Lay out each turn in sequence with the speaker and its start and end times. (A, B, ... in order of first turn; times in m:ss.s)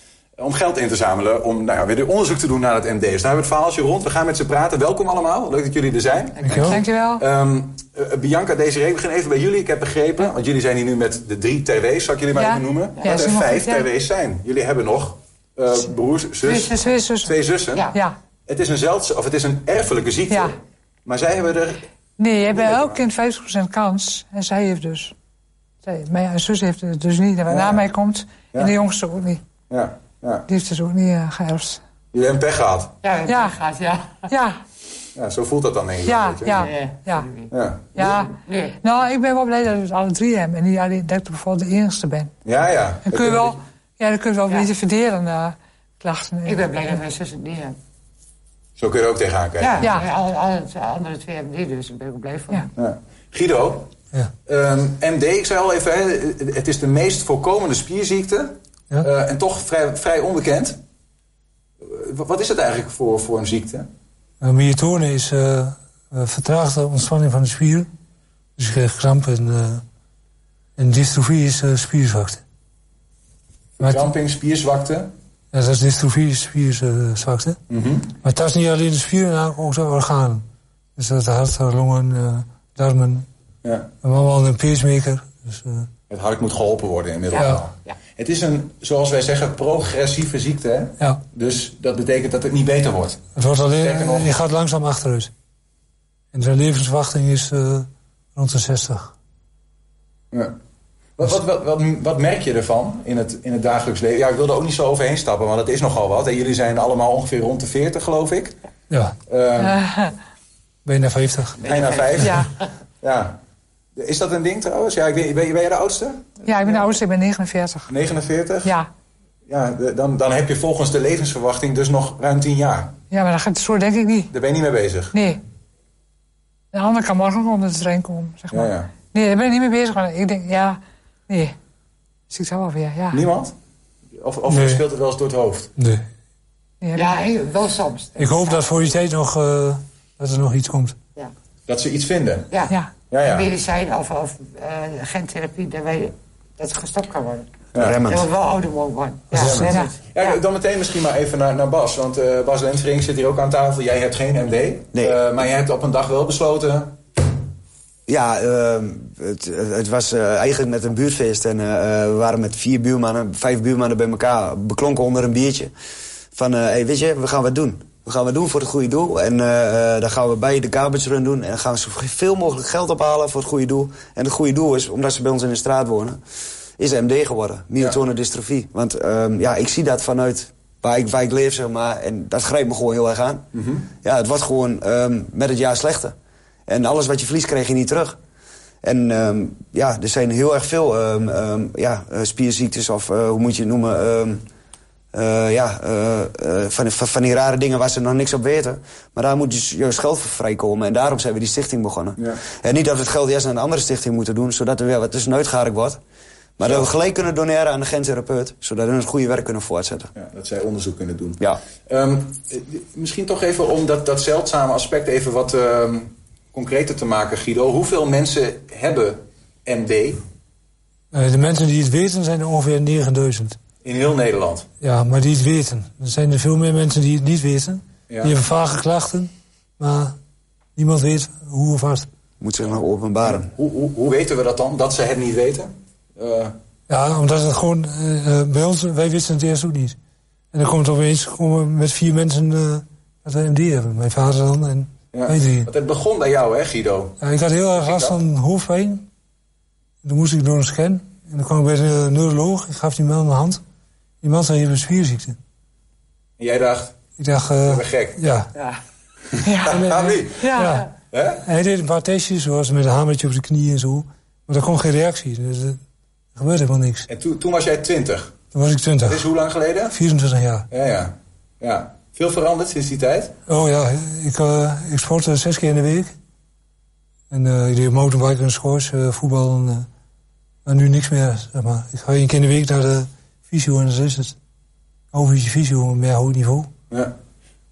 0:00.4-0:17.8 A
0:06.4-0:06.7 B
0:06.4-0:06.8 C
0:06.6-0:07.2 D
0:12.3-0:13.9 D
0:13.0-0:13.2 B
0:16.4-0:17.0 B
0:16.9-0:17.3 D
0:17.7-0:18.0 B
0:17.9-0:18.1 D
0:18.5-0:20.5 A
0:20.3-0:20.5 D
0:21.0-0:21.8 A
0:22.2-0:25.1 D
0:22.5-0:23.0 A
0:25.8-0:29.4 D
0:27.5-0:27.8 A
0:29.7-0:30.5 A
0:30.5-0:31.8 D
0:32.1-0:33.0 A
0:33.0-0:34.3 B
0:33.3-0:33.6 D
0:34.3-0:34.6 D
0:35.2-0:36.7 A
0:36.0-0:37.3 D
0:36.6-0:38.8 B
0:37.5-0:38.0 A
0:38.0-0:42.3 D
0:42.4-0:43.6 A
0:43.0-0:46.9 D
0:46.4-0:47.8 B
0:48.8-0:49.9 A
0:49.6-0:52.7 B
0:49.8-0:50.1 D
0:52.7-0:53.9 A
0:54.4-1:00.8 A
1:01.8-1:03.9 A
1:04.4-1:07.9 C
1:08.6-1:09.8 C
1:10.8-1:12.4 C
1:13.8-1:14.1 C
1:13.8-1:15.1 A
1:15.5-1:17.6 C
1:17.7-1:18.1 A
1:18.2-1:20.4 C
1:21.0-1:23.2 C
1:24.0-1:25.9 C
1:26.1-1:33.2 A
1:27.3-1:28.0 B
1:27.3-1:27.6 C
1:33.4-1:35.3 C
1:33.8-1:34.4 A
1:36.3-1:39.1 C
1:41.2-1:48.5 A
1:49.3-1:49.8 A
1:49.6-1:50.1 D
1:50.8-1:51.6 C
1:51.6-1:52.7 B
1:51.7-1:52.4 A
1:53.0-1:53.4 A
1:54.0-1:56.8 A
1:56.4-1:57.9 D
1:57.9-1:58.7 A
1:59.5-2:03.0 A
2:03.1-2:04.3 D
2:04.3-2:05.1 A
2:05.1-2:05.4 D
2:06.7-2:11.5 D
2:08.5-2:08.9 A
2:12.3-2:13.2 D
2:13.1-2:13.5 A
2:14.2-2:15.7 A
2:14.5-2:14.8 C
2:15.8-2:16.0 C
2:16.8-2:17.1 D
2:16.9-2:18.9 B
2:18.2-2:21.0 C
2:21.7-2:22.6 A
2:22.5-2:27.5 B
2:23.1-2:23.5 A
2:27.7-2:28.3 E
2:28.1-2:30.4 B
2:29.3-2:29.7 C
2:29.4-2:37.0 A
2:38.1-2:45.7 E
2:46.3-2:56.2 E
2:56.8-3:03.4 E
3:03.5-3:03.9 A
3:04.0-3:06.1 E
3:06.7-3:08.2 E
3:08.8-3:14.4 E
3:15.1-3:26.0 E
3:26.6-3:30.1 E
3:26.6-3:26.9 A
3:30.2-3:40.2 A
3:41.1-3:43.6 C
3:43.8-3:44.6 A
3:44.8-3:50.2 C
3:48.1-3:48.3 A
3:50.8-3:52.1 C
3:52.4-3:53.5 E
3:53.2-3:56.5 A
3:56.9-4:00.0 C
4:00.5-4:05.7 C
4:05.1-4:07.2 A
4:07.2-4:09.1 C
4:07.8-4:08.2 A
4:10.0-4:13.6 C
4:14.2-4:15.4 C
4:16.4-4:17.0 A
4:17.2-4:18.5 C
4:17.6-4:18.2 A
4:18.5-4:18.8 B
4:19.4-4:19.7 D
4:19.6-4:20.5 A
4:19.7-4:20.9 C
4:20.3-4:20.7 D
4:21.1-4:21.4 A
4:21.4-4:25.8 C
4:26.4-4:27.0 C
4:27.1-4:28.3 A
4:28.5-4:29.2 C
4:29.0-4:30.0 A
4:29.9-4:30.6 C
4:30.7-4:33.3 A
4:33.5-4:36.1 C
4:37.3-4:39.9 C
4:40.6-4:44.3 C
4:45.1-4:46.7 C